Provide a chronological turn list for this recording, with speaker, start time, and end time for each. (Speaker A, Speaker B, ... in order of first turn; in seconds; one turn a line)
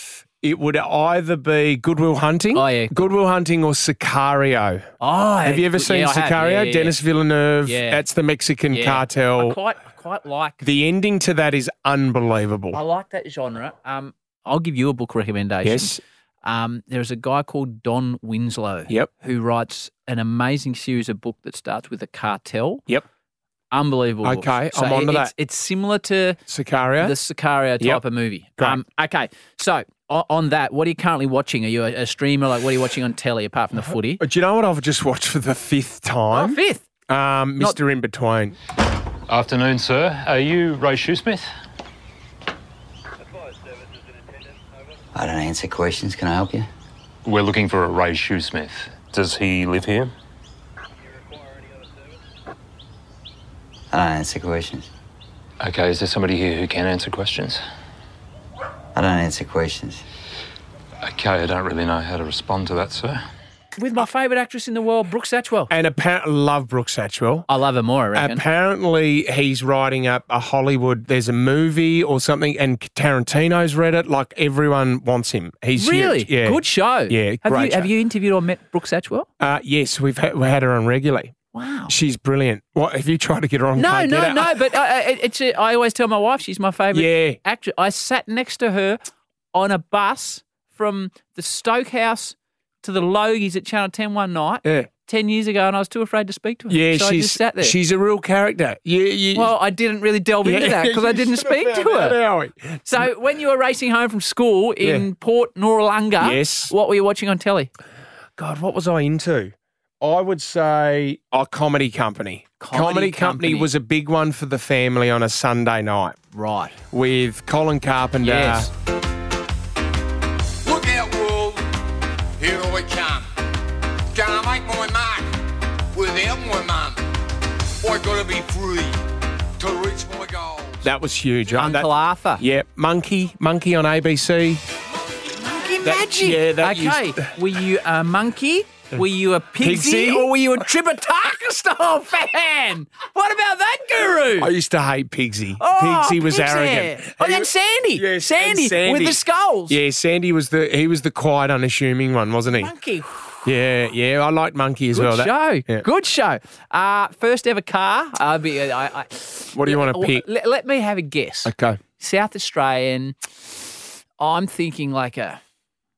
Speaker A: 0.4-4.8
Speaker B: 2.5-3.0
Speaker B: 5.0-7.0
Speaker A: 5.4-9.6
Speaker B: 7.6-8.0
Speaker B: 8.7-10.6
Speaker A: 10.6-12.8
Speaker B: 12.7-22.9
Speaker A: 15.6-16.0
Speaker B: 23.7-26.4
Speaker A: 24.2-25.3
Speaker A: 26.5-27.1
Speaker B: 27.0-34.2
Speaker A: 34.2-38.6
Speaker B: 36.3-36.9
Speaker C: 39.3-41.4
Speaker D: 45.1-46.7
Speaker C: 47.2-50.1
Speaker D: 53.9-54.9
Speaker C: 55.6-57.6
Speaker D: 58.9-60.0
Speaker C: 61.0-63.2
Speaker B: 63.8-65.7
Speaker A: 65.7-67.5
Speaker B: 67.5-68.4
Speaker A: 68.1-77.9
Speaker B: 75.8-79.3
Speaker A: 79.4-81.3
Speaker B: 81.5-81.9
Speaker A: 81.9-84.6
Speaker B: 83.8-89.0
Speaker A: 86.9-87.4
Speaker B: 89.5-97.8
Speaker A: 94.6-94.9
Speaker A: 96.7-99.5
Speaker B: 99.3-102.2
Speaker A: 100.4-103.0
Speaker B: 102.8-107.7
Speaker A: 104.8-105.1
Speaker A: 106.2-106.7
Speaker A: 108.4-116.2
Speaker B: 112.6-113.7
Speaker B: 116.3-116.7
Speaker A: 116.9-118.7
Speaker B: 118.2-118.7
Speaker E: 120.6-121.7
Speaker E: 122.4-123.3
Speaker E: 124.1-125.4
Speaker E: 125.9-127.0
Speaker E: 127.8-129.0
Speaker E: 129.6-130.8
Speaker A: 130.8-134.6
Speaker B: 131.6-132.4
Speaker B: 135.3-144.5
Speaker A: 135.8-137.3
Speaker A: 139.6-140.5
Speaker A: 144.4-152.7
Speaker B: 145.6-149.8
Speaker B: 152.6-153.4
Speaker A: 153.4-155.8
Speaker B: 154.9-165.4
Speaker A: 159.5-160.2
Speaker A: 161.4-161.8